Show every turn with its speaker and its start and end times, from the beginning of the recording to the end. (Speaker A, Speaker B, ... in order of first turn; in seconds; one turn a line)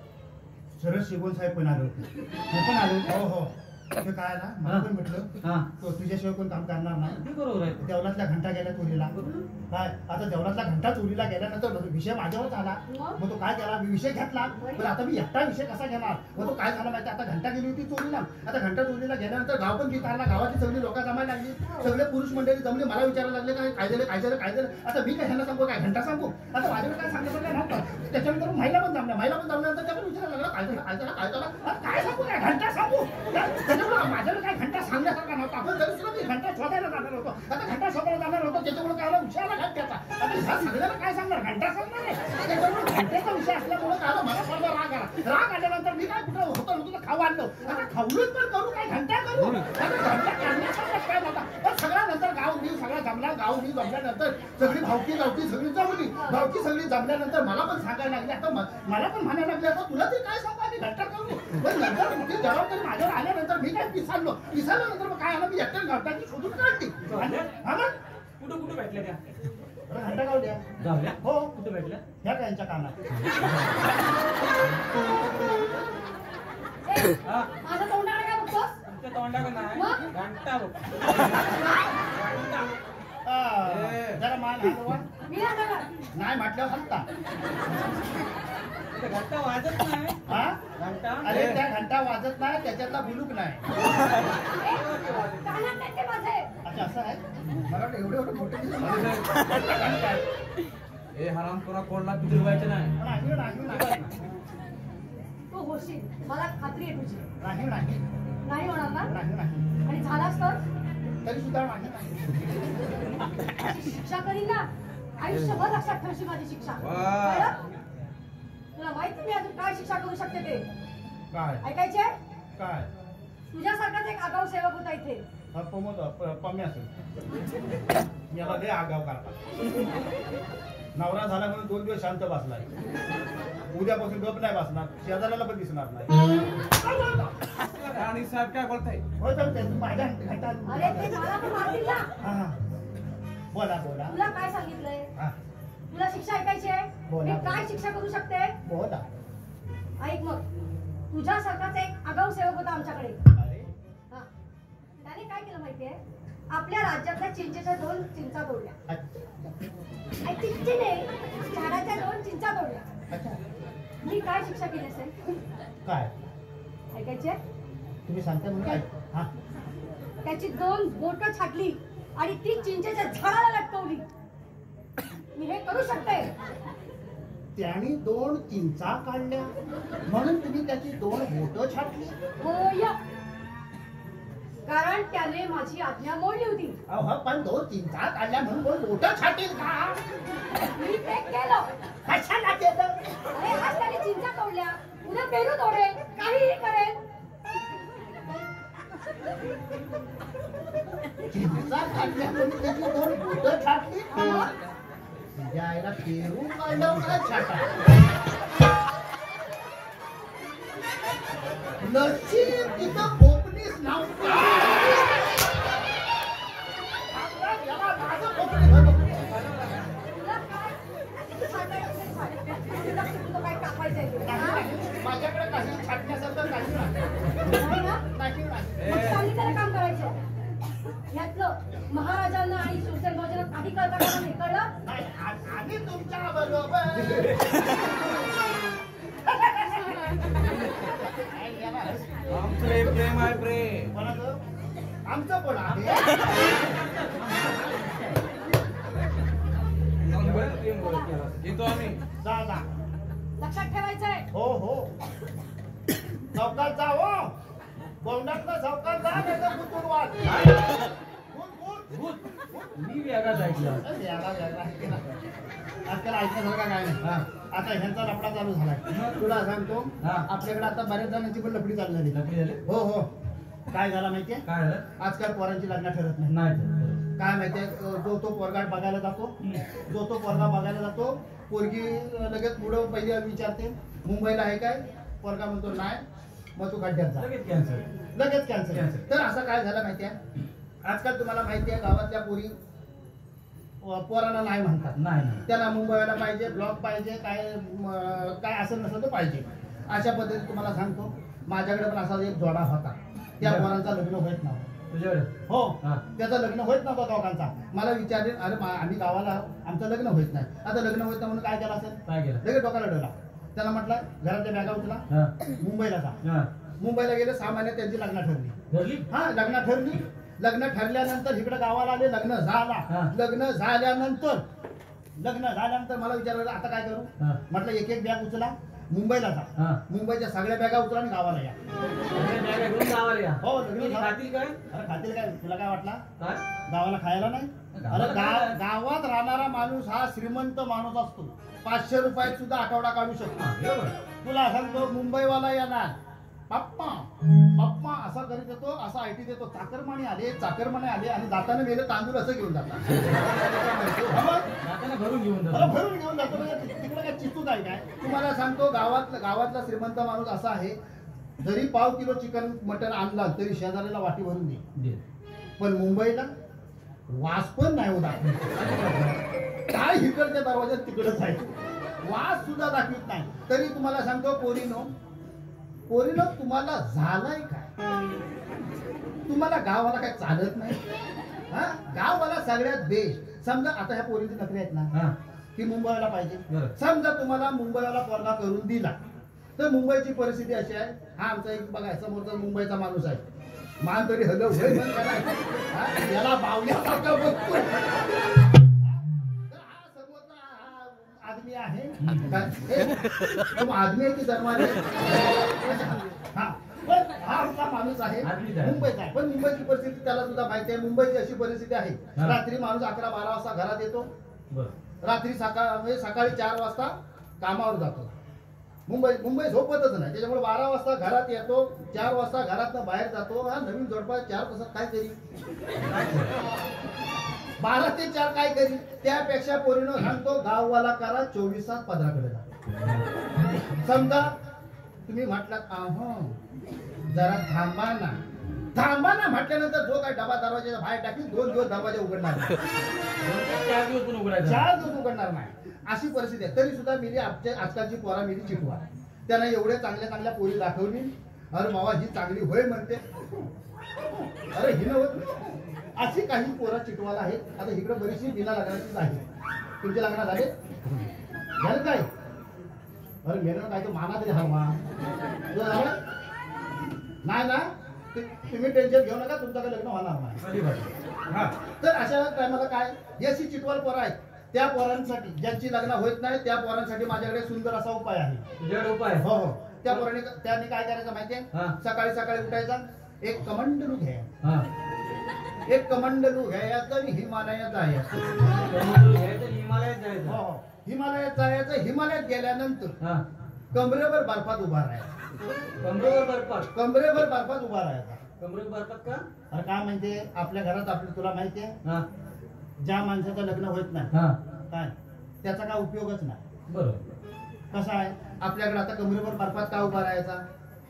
Speaker A: 0.8-7.2
Speaker B: 2.6-3.0
Speaker B: 5.4-5.7
Speaker B: 7.2-7.8
Speaker A: 7.8-9.1
Speaker A: 9.7-67.9
Speaker C: 12.9-13.2
Speaker C: 14.6-14.9
Speaker C: 21.6-21.9
Speaker C: 56.1-56.4
Speaker B: 67.1-67.5
Speaker B: 68.4-69.2
Speaker A: 69.9-70.6
Speaker B: 70.8-72.0
Speaker A: 71.2-71.5
Speaker A: 72.2-73.0
Speaker C: 76.8-78.8
Speaker B: 78.8-81.5
Speaker C: 79.7-80.1
Speaker B: 82.1-82.7
Speaker A: 83.2-85.0
Speaker B: 83.7-84.1
Speaker C: 85.3-85.9
Speaker A: 86.1-87.1
Speaker B: 88.9-90.2
Speaker A: 90.3-90.7
Speaker B: 90.8-91.4
Speaker A: 91.2-93.7
Speaker C: 94.5-96.5
Speaker B: 94.7-95.5
Speaker A: 96.6-100.2
Speaker D: 98.8-99.3
Speaker D: 101.1-102.9
Speaker A: 103.0-104.1
Speaker C: 105.5-107.2
Speaker A: 107.4-108.0
Speaker C: 108.4-109.1
Speaker A: 109.1-109.6
Speaker C: 109.8-110.6
Speaker A: 111.2-112.4
Speaker C: 113.6-114.7
Speaker C: 115.2-117.5
Speaker D: 116.8-117.5
Speaker C: 118.8-120.7
Speaker A: 121.3-121.6
Speaker C: 121.6-122.2
Speaker A: 122.6-122.9
Speaker C: 123.5-125.2
Speaker A: 125.5-126.9
Speaker A: 128.3-129.4
Speaker A: 130.9-132.7
Speaker A: 133.7-136.3
Speaker A: 136.9-137.3
Speaker B: 137.7-138.0
Speaker D: 137.9-139.0
Speaker A: 139.2-141.2
Speaker C: 140.7-142.1
Speaker A: 142.2-142.6
Speaker A: 143.5-144.2
Speaker C: 144.1-145.1
Speaker C: 145.9-148.6
Speaker A: 147.1-147.7
Speaker A: 148.6-149.1
Speaker C: 150.0-150.4
Speaker C: 151.1-153.2
Speaker A: 153.3-153.7
Speaker C: 155.0-158.8
Speaker A: 158.9-159.5
Speaker C: 160.2-162.9
Speaker A: 163.1-163.4
Speaker C: 164.0-165.1
Speaker A: 165.8-166.1
Speaker C: 166.9-167.4
Speaker A: 168.1-169.3
Speaker C: 170.2-174.1
Speaker C: 175.3-176.3
Speaker A: 177.5-179.5
Speaker A: 180.1-182.2
Speaker C: 182.4-183.0
Speaker C: 184.7-186.8
Speaker A: 186.9-190.0
Speaker C: 190.8-191.7
Speaker A: 192.1-193.0
Speaker C: 193.3-197.0
Speaker A: 201.3-204.5
Speaker C: 204.2-204.5
Speaker A: 205.3-207.7
Speaker A: 211.8-215.0
Speaker A: 217.1-219.2
Speaker B: 219.3-219.7
Speaker C: 220.1-224.6
Speaker A: 224.2-227.3
Speaker C: 227.5-228.0
Speaker A: 228.1-228.9
Speaker C: 228.8-230.2
Speaker D: 228.8-229.2
Speaker C: 231.1-234.7
Speaker A: 234.8-238.0
Speaker A: 239.2-242.2
Speaker D: 242.3-243.9
Speaker A: 243.9-244.4
Speaker A: 245.0-246.2
Speaker B: 245.9-248.2
Speaker D: 250.1-252.0
Speaker B: 250.1-251.3
Speaker A: 252.2-252.7
Speaker C: 253.4-254.2
Speaker A: 254.3-254.9
Speaker A: 256.3-257.4
Speaker A: 258.0-260.5
Speaker B: 260.2-260.6
Speaker A: 261.3-262.7
Speaker B: 261.9-262.2
Speaker B: 262.8-263.8
Speaker A: 263.8-265.1
Speaker A: 265.9-273.1
Speaker B: 272.1-272.6
Speaker A: 273.7-276.4
Speaker B: 274.4-274.8
Speaker B: 276.3-277.0
Speaker A: 277.2-286.0
Speaker A: 286.6-287.3
Speaker B: 287.2-287.8
Speaker A: 288.1-290.1
Speaker B: 288.7-289.0
Speaker A: 290.8-292.6
Speaker A: 293.8-304.7
Speaker B: 294.9-295.4
Speaker B: 303.4-303.7
Speaker B: 304.9-305.3
Speaker A: 305.5-315.0
Speaker B: 312.1-312.4
Speaker A: 315.6-316.2
Speaker A: 316.8-318.5
Speaker B: 318.7-319.1
Speaker A: 319.1-324.4
Speaker A: 325.2-331.6
Speaker B: 332.1-334.6
Speaker A: 333.4-334.1
Speaker A: 334.7-336.0
Speaker A: 336.7-343.4
Speaker B: 337.7-338.6
Speaker B: 343.3-343.9
Speaker A: 344.2-345.9
Speaker A: 346.5-354.5
Speaker B: 354.1-355.8
Speaker A: 355.5-360.8
Speaker A: 361.4-364.6
Speaker B: 364.7-365.0
Speaker A: 365.6-366.3
Speaker A: 367.1-368.6
Speaker B: 368.5-369.2
Speaker A: 369.7-374.9
Speaker A: 375.9-377.7
Speaker A: 379.3-380.8
Speaker A: 381.5-384.9
Speaker A: 385.5-388.9
Speaker A: 389.6-393.2
Speaker A: 393.8-398.1
Speaker A: 398.6-414.1
Speaker B: 402.0-402.3
Speaker B: 408.2-408.9
Speaker A: 415.0-418.1
Speaker A: 418.9-425.2
Speaker B: 425.9-426.3
Speaker A: 427.6-432.4
Speaker A: 433.8-434.4
Speaker A: 435.1-436.4
Speaker A: 437.1-438.2
Speaker A: 438.7-442.6
Speaker B: 443.2-444.7
Speaker A: 444.4-453.5
Speaker A: 454.0-459.2
Speaker A: 459.8-461.0
Speaker A: 461.6-462.1
Speaker A: 463.2-464.8
Speaker A: 465.5-466.0
Speaker A: 467.2-470.4
Speaker B: 470.4-470.9
Speaker A: 471.3-478.4
Speaker B: 478.6-479.2
Speaker A: 479.2-484.3
Speaker A: 485.7-488.1
Speaker B: 488.5-490.4
Speaker A: 490.2-492.9
Speaker A: 493.7-495.1
Speaker B: 495.8-496.7
Speaker A: 496.7-498.2
Speaker B: 498.4-499.2
Speaker A: 499.5-501.8
Speaker A: 502.8-504.1
Speaker B: 504.1-504.4
Speaker A: 504.7-506.4
Speaker B: 506.7-507.1
Speaker A: 507.7-510.4